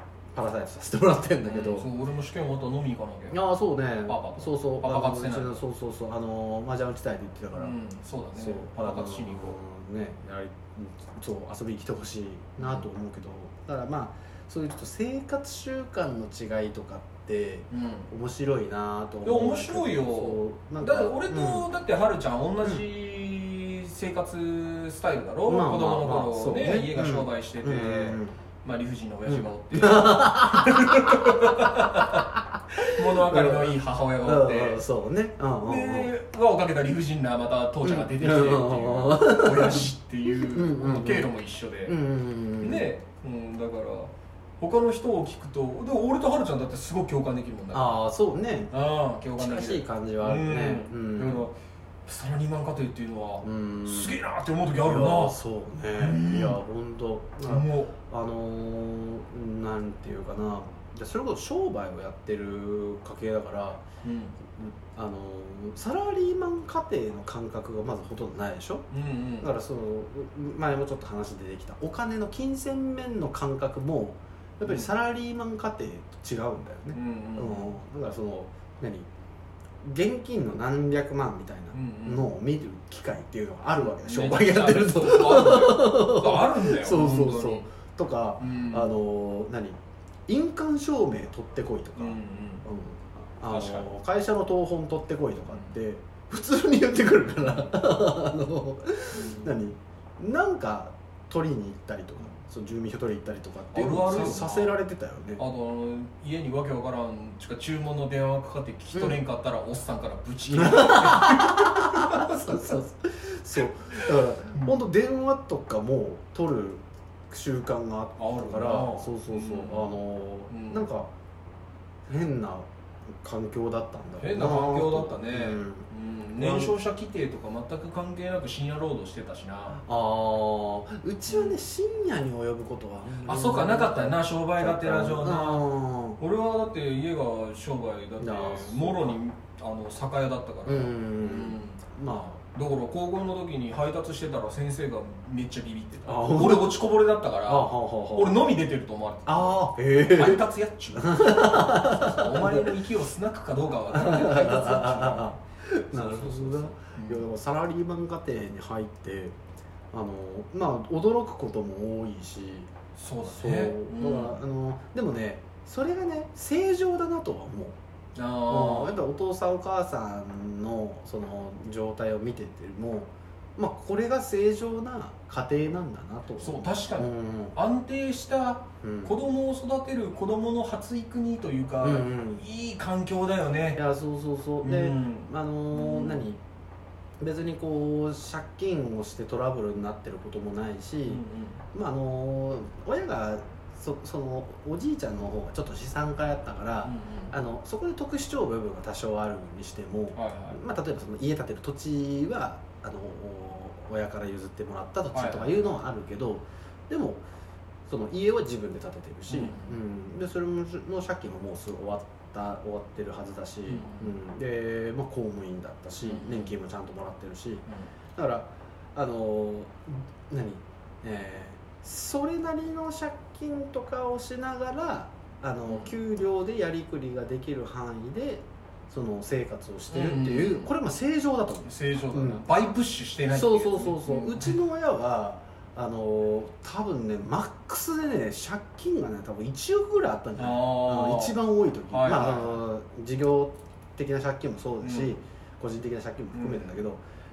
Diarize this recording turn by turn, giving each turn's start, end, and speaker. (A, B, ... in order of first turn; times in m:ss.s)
0:00.3-0:01.9 A
0:01.4-0:03.4 B
0:03.3-0:07.8 A
0:04.0-0:05.6 B
0:07.5-0:09.6 B
0:08.4-0:21.7 A
0:12.6-0:12.8 B
0:17.7-0:18.1 B
0:19.2-0:34.8 B
0:25.5-0:28.4 A
0:29.3-0:36.1 A
0:35.6-0:42.0 B
0:37.8-0:41.3 A
0:41.8-0:42.9 A
0:42.6-0:48.0 B
0:47.7-0:48.7 A
0:48.7-0:55.4 B
0:49.4-0:51.5 A
0:53.4-0:54.2 A
0:54.8-1:03.8 A
0:56.0-0:56.6 B
0:57.4-0:57.9 B
1:04.0-1:04.4 B
1:04.5-1:08.9 A
1:08.9-1:09.5 B
1:09.4-1:19.1 A
1:16.9-1:17.8 B
1:19.8-1:45.4 A
1:21.7-1:22.3 B
1:23.8-1:27.7 B
1:28.4-1:28.9 B
1:32.0-1:32.7 B
1:33.5-1:33.8 B
1:37.4-1:37.7 B
1:39.1-1:39.6 B
1:43.7-1:44.8 B
1:45.4-1:52.8 B
1:50.5-2:01.1 A
1:58.2-1:59.9 B
2:00.5-2:00.9 B
2:02.1-2:02.7 A
2:03.2-2:06.7 A
2:04.2-2:09.8 B
2:09.8-2:16.2 A
2:11.3-2:11.6 B
2:13.2-2:21.8 B
2:18.2-2:19.2 A
2:20.6-2:22.4 A
2:22.5-2:35.3 B
2:26.0-2:26.8 A
2:27.4-2:28.5 A
2:29.2-2:32.8 A
2:33.9-2:39.4 A
2:35.9-2:37.2 B
2:39.9-2:42.7 A
2:42.9-2:44.4 B
2:43.2-2:47.8 A
2:48.1-2:49.0 B
2:48.4-2:57.6 A
2:56.4-3:03.8 B
2:58.8-2:59.2 A
3:01.8-3:02.4 A
3:03.7-3:06.4 A
3:04.6-3:06.3 B
3:07.2-3:27.2 A
3:11.1-3:11.6 B
3:16.8-3:17.3 B
3:20.1-3:20.6 B
3:25.1-3:25.8 B
3:27.9-3:52.4 A
3:29.3-3:29.8 B
3:33.6-3:34.1 B
3:36.0-3:36.5 B
3:49.9-3:50.7 B
3:51.6-3:54.6 B
3:53.3-4:07.0 A
4:00.4-4:02.6 B
4:04.8-4:05.2 B
4:06.3-4:06.7 B